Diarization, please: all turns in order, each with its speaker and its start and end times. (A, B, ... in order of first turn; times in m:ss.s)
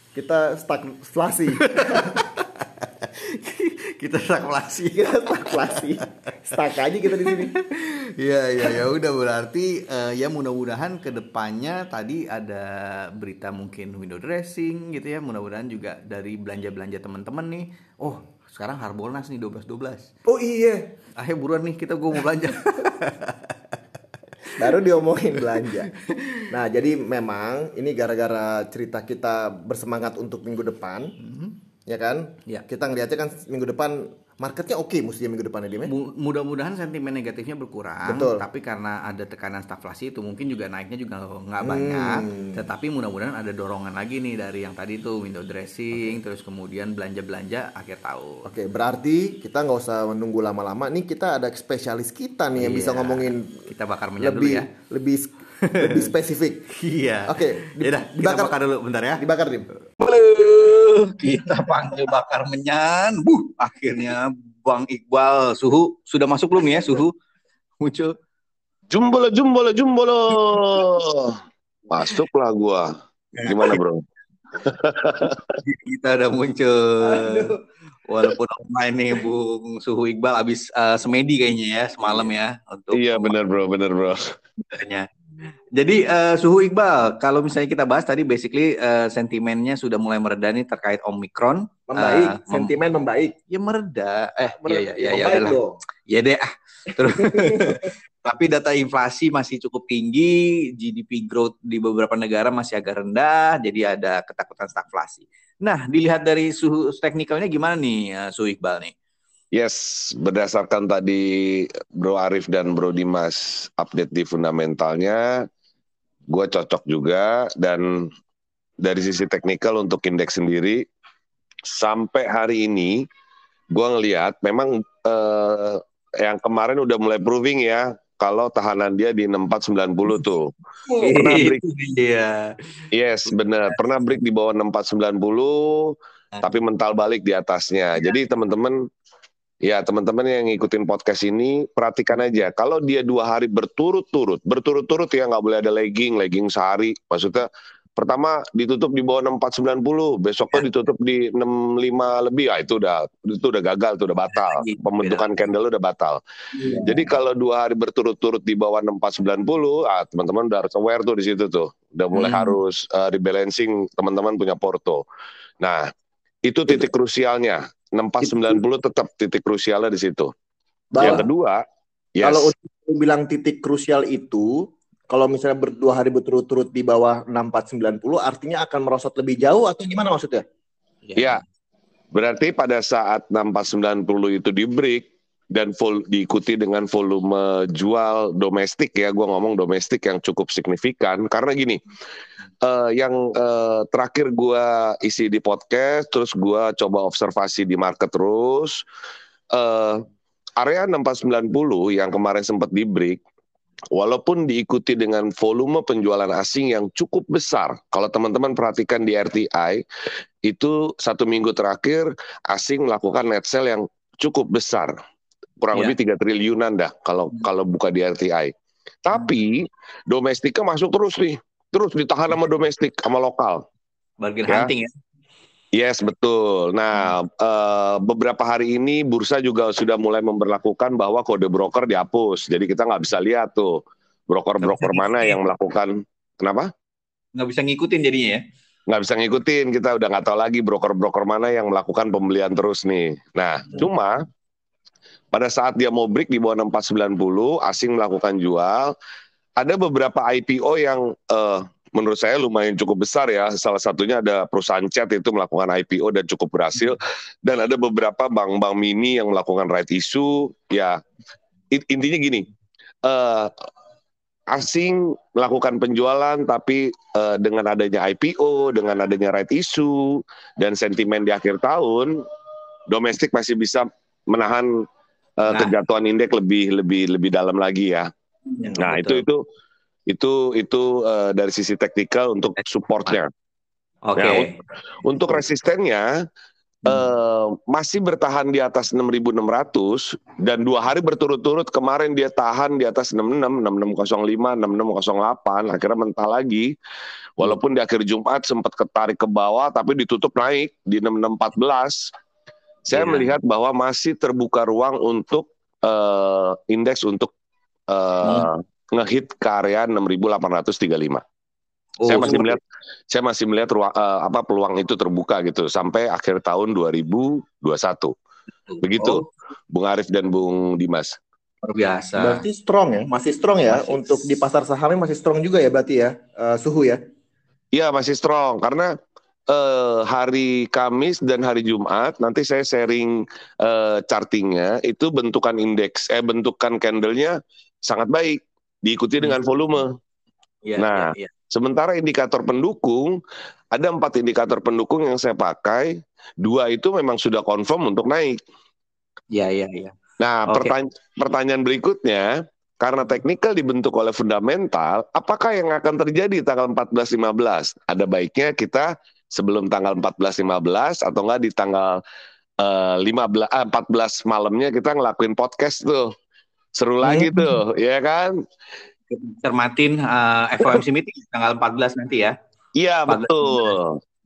0:00.1-0:02.2 A
0:01.6-0:06.0 B
0:04.9-0:07.5 A
0:07.1-0:20.1 B
0:20.2-0:20.9 A
0:21.2-0:23.7 B
0:24.4-0:24.7 B
0:24.6-0:25.9 A
0:25.4-0:26.5 B
0:26.5-0:31.1 A
0:31.2-0:31.6 B
0:31.8-0:35.9 A
0:35.8-0:48.5 B
0:38.0-0:38.4 A
0:41.6-0:42.6 A
0:48.4-0:53.7 A
0:52.6-0:54.7 B
0:54.2-0:56.7 A
0:55.6-0:56.1 B
0:56.7-0:59.2 B
0:57.3-0:58.6 A
0:59.2-0:59.7 A
0:59.9-1:07.1 B
1:07.8-1:08.1 B
1:08.9-1:12.9 C
1:13.4-1:13.8 B
1:13.4-1:14.0 C
1:14.6-1:15.4 C
1:15.5-1:17.5 B
1:17.0-1:17.6 A
1:18.1-1:23.3 B
1:22.9-1:24.3 C
1:24.7-1:25.1 B
1:25.7-1:32.7 B
1:31.9-1:33.3 A
1:33.5-1:48.9 B
1:34.6-1:35.8 A
1:37.0-1:37.9 A
1:49.5-1:55.4 C
1:56.3-1:58.1 C
1:58.8-2:00.8 C
2:01.7-2:03.0 C
2:03.7-2:11.6 C
2:10.9-2:13.8 B
2:12.9-2:18.8 C
2:19.6-2:36.2 C
2:34.3-2:35.3 B
2:36.7-2:45.0 C
2:42.1-2:42.6 B
2:45.6-2:45.8 C
2:46.4-2:50.3 C
2:48.2-2:48.6 A
2:50.9-2:51.2 A
2:51.0-2:51.6 C
2:52.2-2:52.5 C
2:52.2-3:00.4 A
3:01.0-3:01.4 B
3:02.1-3:11.8 C
3:12.6-3:18.8 C
3:19.5-3:20.0 C
3:20.6-3:23.2 C
3:23.9-3:29.8 C
3:30.4-3:35.0 C
3:35.6-3:38.5 C
3:39.0-3:43.6 C
3:44.2-3:44.9 B
3:45.7-3:56.7 C
3:54.6-3:55.3 B
3:57.3-3:58.4 B
3:58.9-4:04.2 C
4:05.3-4:08.9 C
4:09.6-4:21.0 C
4:21.7-4:22.5 C
4:23.0-4:23.5 C
4:24.5-4:32.2 C
4:32.9-4:34.8 C
4:35.4-4:38.1 C
4:35.5-4:35.7 B
4:38.5-4:39.2 B
4:38.8-4:39.4 C
4:40.1-4:43.3 C
4:44.0-4:44.5 B
4:44.2-4:44.5 C
4:45.0-4:46.1 C
4:46.8-4:56.7 C
4:57.4-5:02.1 C
5:02.9-5:07.3 C
5:02.9-5:03.3 B
5:07.9-5:11.2 C
5:08.2-5:08.5 B
5:12.0-5:12.6 B
5:12.0-5:18.1 C
5:18.7-5:19.2 B
5:18.8-5:21.2 C
5:21.6-5:22.4 B
5:22.2-5:27.0 A
5:23.7-5:24.4 B
5:27.7-5:28.9 C
5:29.5-5:40.0 C
5:40.6-5:41.3 B
5:40.8-5:43.2 C
5:43.7-5:48.4 C
5:49.3-5:49.9 B
5:50.2-6:02.0 C
5:50.5-5:50.7 B
6:02.6-6:06.1 C
6:06.8-6:08.4 C
6:07.0-6:07.3 A
6:09.1-6:12.3 B
6:12.8-6:14.0 C
6:13.1-6:13.7 B